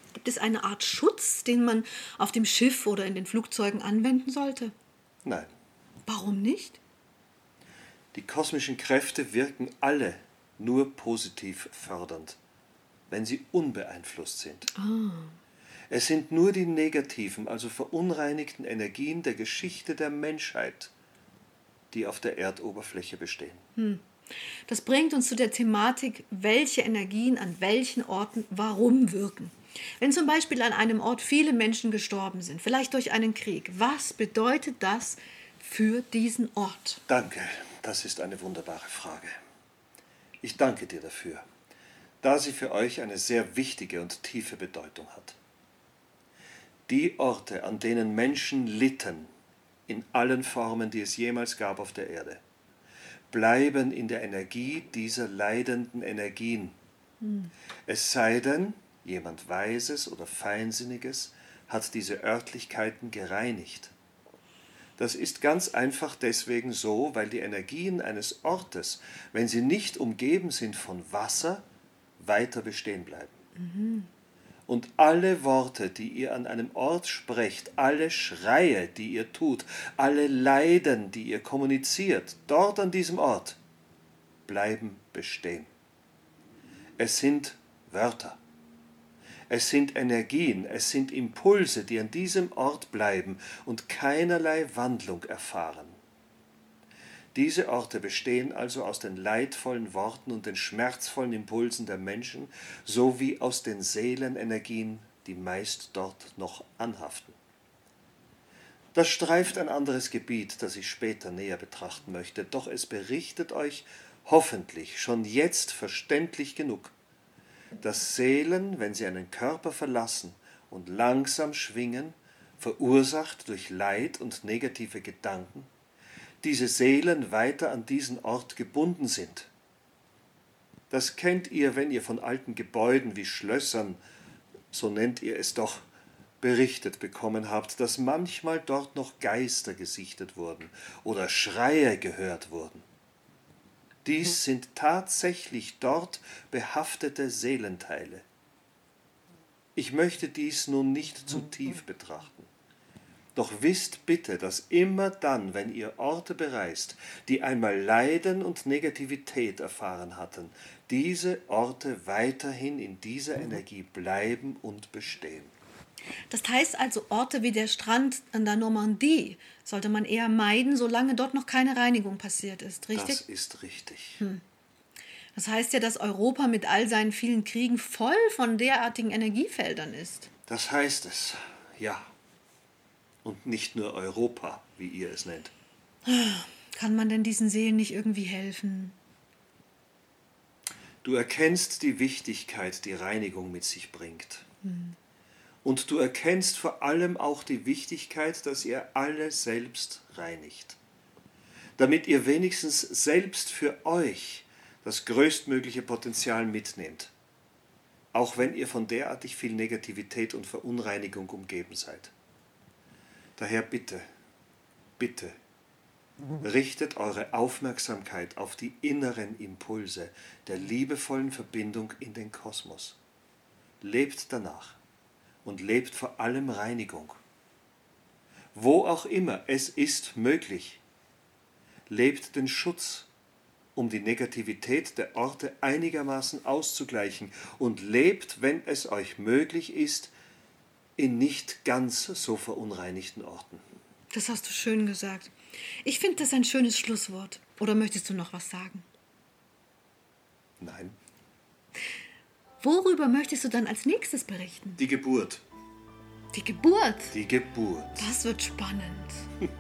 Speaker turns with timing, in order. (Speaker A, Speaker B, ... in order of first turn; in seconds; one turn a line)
Speaker A: 0.1-4.7
Speaker B: 5.2-5.5
Speaker A: 6.1-6.8
Speaker B: 8.1-12.4
Speaker B: 13.1-14.7
Speaker A: 14.7-15.3
Speaker B: 15.9-20.9
Speaker B: 21.9-23.6
Speaker A: 23.8-24.0
Speaker A: 24.7-37.0
Speaker B: 37.1-39.3
Speaker B: 40.4-41.5
Speaker B: 42.2-45.4
Speaker B: 46.9-49.3
Speaker B: 49.9-52.4
Speaker B: 53.3-56.8
Speaker A: 57.2-57.5
Speaker B: 57.9-63.9
Speaker B: 65.0-71.6
Speaker B: 72.2-73.4
Speaker A: 73.6-74.1
Speaker B: 74.7-83.6
Speaker B: 84.5-85.7
Speaker B: 87.0-88.4
Speaker B: 89.5-96.0
Speaker B: 97.3-107.4
Speaker B: 108.9-117.0
Speaker B: 117.8-125.7
Speaker B: 126.4-129.5
Speaker B: 130.9-134.0
Speaker B: 134.7-135.9
Speaker B: 136.4-142.8
Speaker B: 144.1-148.2
Speaker B: 149.8-152.5
Speaker B: 153.3-165.5
Speaker A: 166.3-173.2
Speaker B: 172.9-174.2
Speaker A: 175.4-180.3
Speaker B: 180.5-182.1
Speaker B: 183.2-185.5
Speaker A: 186.1-189.0
Speaker B: 191.0-194.5
Speaker A: 194.6-195.0
Speaker B: 195.6-200.8
Speaker B: 201.8-207.1
Speaker B: 208.1-212.1
Speaker B: 213.4-214.0
Speaker B: 215.0-215.3
Speaker B: 216.4-223.0
Speaker B: 223.8-224.8
Speaker B: 225.4-227.2
Speaker B: 228.5-230.8
Speaker B: 231.9-233.1
Speaker B: 233.8-240.1
Speaker B: 241.0-243.6
Speaker A: 244.1-245.3
Speaker A: 245.8-248.9
Speaker B: 250.6-251.0
Speaker A: 252.6-254.8
Speaker B: 254.8-255.4
Speaker A: 256.3-257.1
Speaker B: 257.1-258.1
Speaker A: 258.0-259.3